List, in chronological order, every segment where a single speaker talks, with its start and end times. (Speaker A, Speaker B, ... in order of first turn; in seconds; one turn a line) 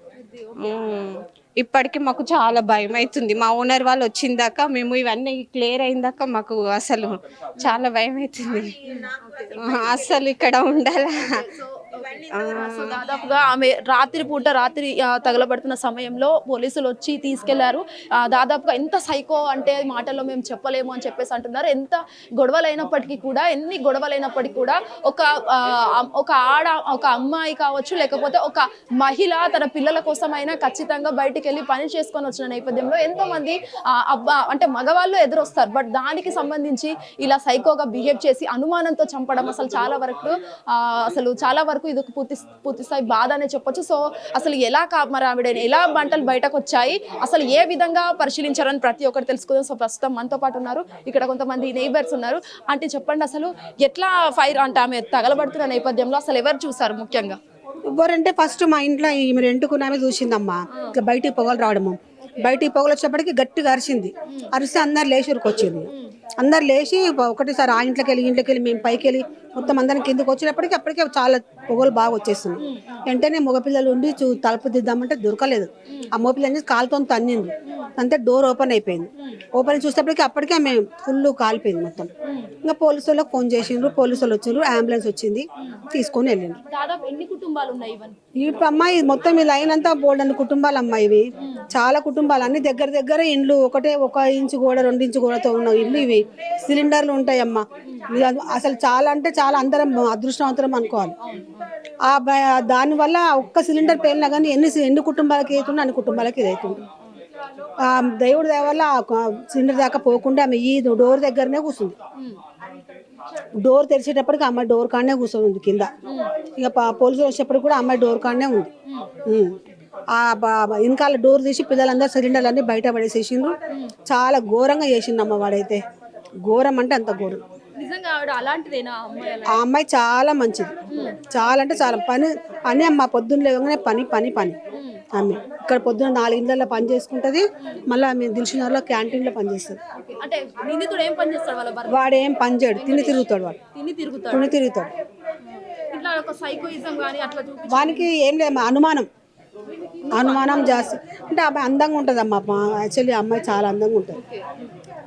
Speaker A: 0.2-0.8
Speaker B: 0.6-8.7
Speaker A: 8.9-10.4
Speaker B: 9.6-11.1
Speaker A: 11.2-57.4
Speaker B: 12.4-13.0
Speaker C: 57.9-65.9
Speaker A: 62.2-62.5
Speaker C: 66.4-82.1
Speaker A: 72.6-73.0
Speaker A: 82.3-82.5
Speaker C: 82.6-86.6
Speaker A: 86.7-88.2
Speaker C: 88.4-101.1
Speaker A: 101.2-101.6
Speaker C: 102.0-106.8
Speaker C: 107.8-112.0
Speaker C: 113.6-115.9
Speaker C: 116.6-118.7
Speaker C: 119.3-119.5
Speaker C: 120.1-123.5
Speaker C: 124.1-125.8
Speaker C: 126.4-127.4
Speaker A: 127.8-129.7
Speaker C: 129.5-130.7
Speaker C: 131.3-134.6
Speaker A: 134.8-135.0
Speaker C: 135.1-139.8
Speaker A: 140.0-142.1
Speaker C: 141.9-143.6
Speaker A: 142.7-144.5
Speaker C: 144.3-144.9
Speaker A: 145.9-148.1
Speaker C: 147.7-149.1
Speaker A: 150.0-150.9
Speaker C: 150.1-154.2
Speaker A: 154.1-154.7